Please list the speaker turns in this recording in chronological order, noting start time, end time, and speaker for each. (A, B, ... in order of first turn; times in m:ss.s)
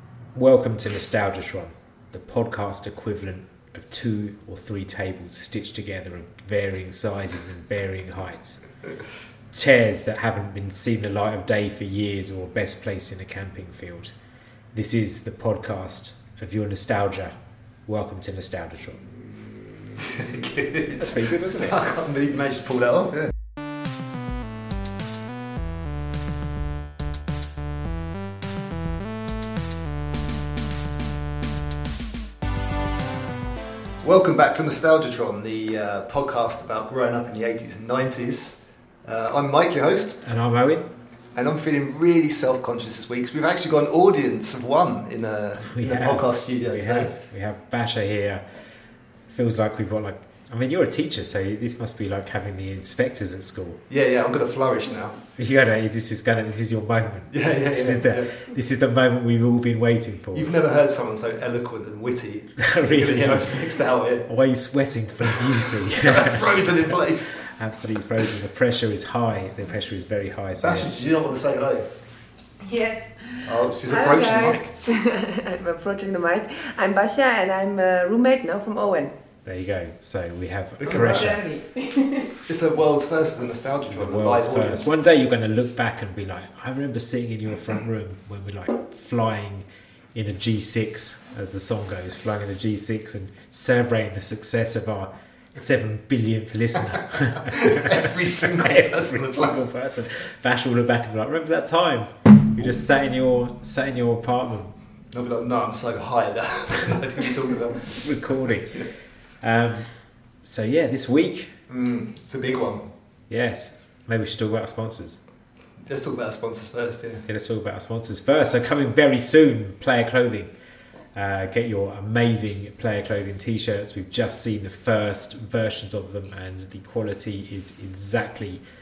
0:00.3-0:08.6 A
0:09.5-0:14.1 A
0:14.7-0:17.3 A
0:17.9-0:19.0 A
0:20.0-0:23.3 B
0:20.9-0:21.8 A
0:34.0-0:40.2 B
0:40.2-0:40.8 A
0:41.3-0:47.1 B
0:45.6-0:48.4 A
0:49.3-0:53.8 A
0:53.9-0:55.2 B
0:55.4-1:00.5 A
0:57.3-0:58.3 B
1:00.3-1:04.3 B
1:02.6-1:03.6 A
1:04.2-1:11.0 A
1:05.2-1:07.4 B
1:10.6-1:11.9 B
1:12.6-1:19.1 C
1:13.4-1:14.7 B
1:19.4-1:21.4 A
1:20.8-1:21.4 B
1:20.9-1:22.4 C
1:22.4-1:24.9 B
1:23.8-1:44.7 A
1:36.9-1:39.6 B
1:45.1-1:48.1 B
1:48.0-1:48.9 A
1:49.4-1:49.9 A
1:50.4-1:51.5 A
1:51.7-1:52.9 B
1:53.3-1:55.2 A
1:55.8-1:57.2 B
1:57.2-2:00.5 A
2:01.1-2:08.6 A